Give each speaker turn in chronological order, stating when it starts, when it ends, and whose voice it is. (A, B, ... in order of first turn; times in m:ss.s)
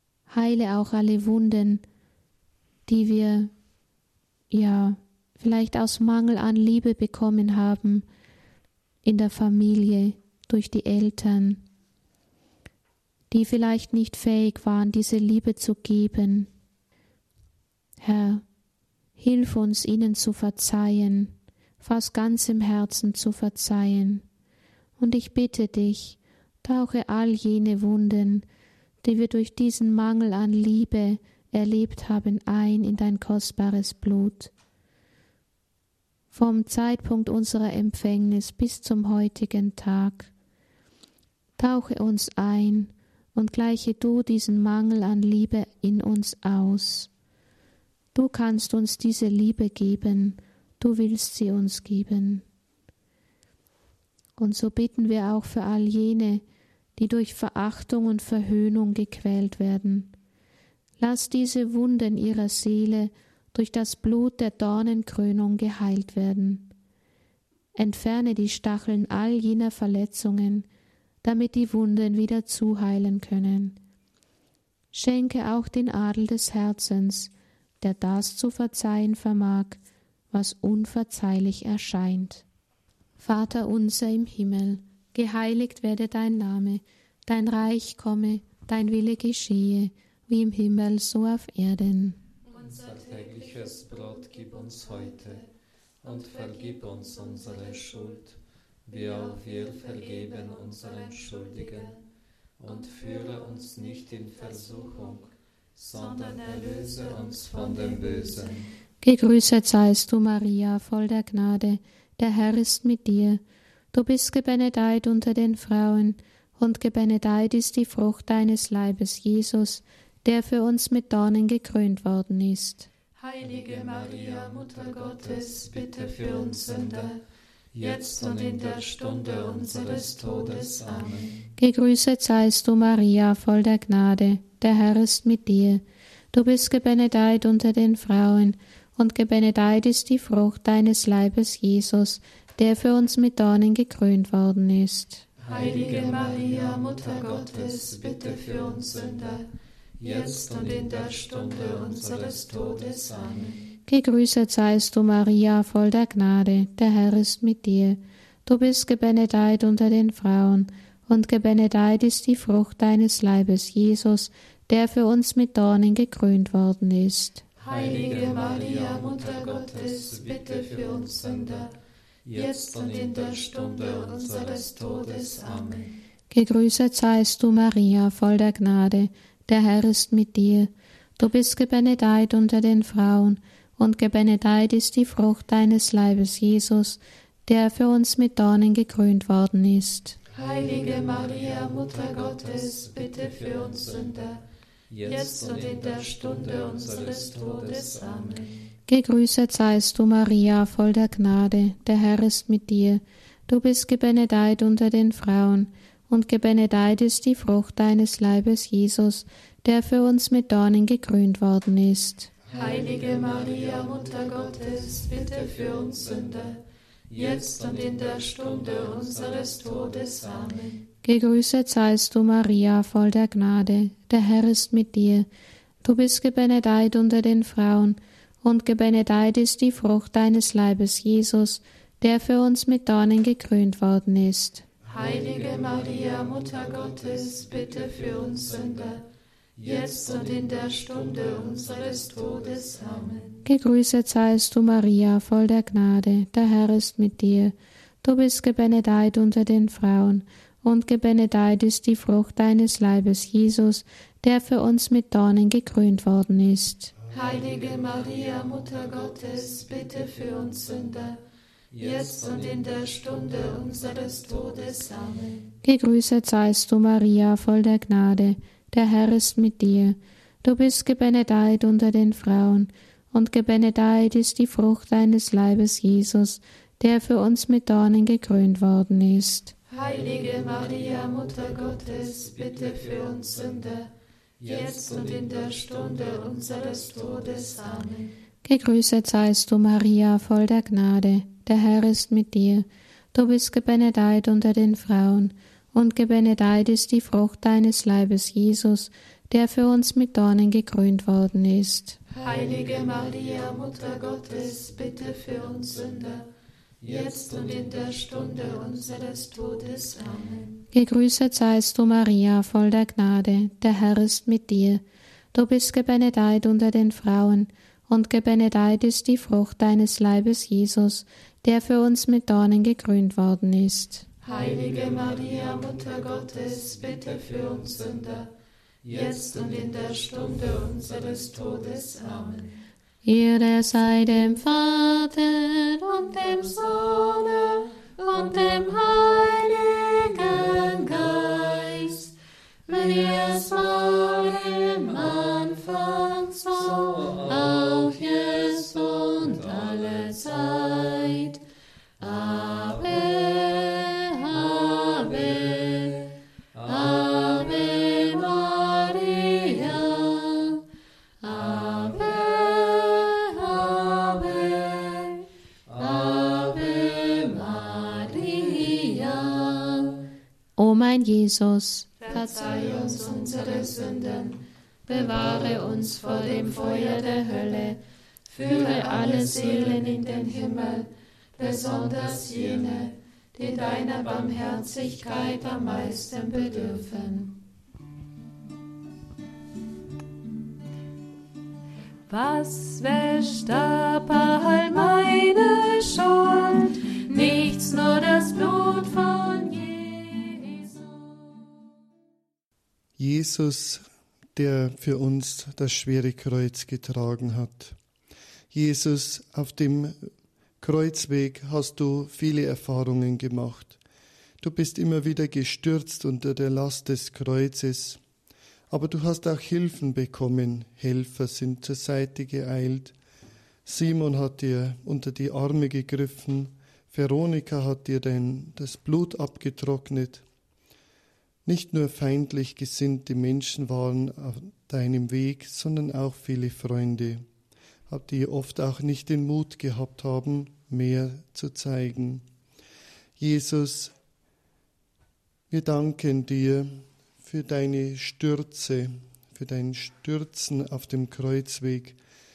0:00.3-0:01.8 A
0:02.9-0:03.5 A
0:04.5-0:08.0 A
0:09.0-0:11.6 A
0:13.3-0:16.5 A
0:18.0-0:18.4 A
0:19.2-0:24.2 A
0:25.0-0:28.4 A
0:29.0-0:34.5 A
0:36.3-0:40.3 A
0:41.6-0:47.1 A
0:48.1-0:52.4 A
0:54.4-0:56.4 A
0:57.0-1:00.1 A
1:01.0-1:06.7 A
1:07.7-1:10.7 A
1:11.2-1:13.8 A
1:14.9-1:19.8 A
1:20.3-1:22.4 A
1:23.2-1:32.2 A
1:32.5-1:35.5 B
1:36.0-1:42.0 B
1:42.6-1:48.7 B
1:49.0-1:53.4 A
1:53.9-2:02.9 A
2:03.2-2:07.2 B
2:07.7-2:11.4 B
2:11.6-2:25.2 A
2:25.4-2:29.4 B
2:30.0-2:33.6 B
2:33.9-2:47.4 A
2:47.6-2:51.7 B
2:52.2-2:55.9 B
2:56.3-3:10.2 A
3:10.3-3:18.6 B
3:18.9-3:32.3 A
3:32.5-3:40.8 B
3:41.0-3:45.3 A
3:45.8-3:54.6 A
3:54.8-3:59.0 B
3:59.6-4:03.4 B
4:03.4-4:16.9 A
4:17.1-4:21.2 B
4:21.7-4:25.4 B
4:25.6-4:39.5 A
4:39.7-4:48.1 B
4:48.4-5:02.0 A
5:02.1-5:06.2 B
5:06.8-5:10.6 B
5:10.7-5:24.1 A
5:24.2-5:28.3 B
5:28.8-5:32.6 B
5:33.0-5:36.0 A
5:36.1-5:42.1 B
5:42.7-5:51.4 B
5:52.0-6:00.6 B
6:01.2-6:10.0 B
6:10.6-6:12.1 A
6:12.0-6:16.9 B
6:18.3-6:20.8 B
6:21.4-6:26.9 B
6:32.1-6:41.2 B
6:43.0-6:43.8 C
6:44.4-6:47.8 C
6:48.5-6:50.1 C
6:50.6-6:53.8 C
6:54.4-6:58.0 C
6:58.7-7:03.0 C
7:03.6-7:10.2 C
7:11.4-7:17.2 C
7:17.9-7:22.2 C
7:23.2-7:23.9 C
7:25.5-7:32.0 C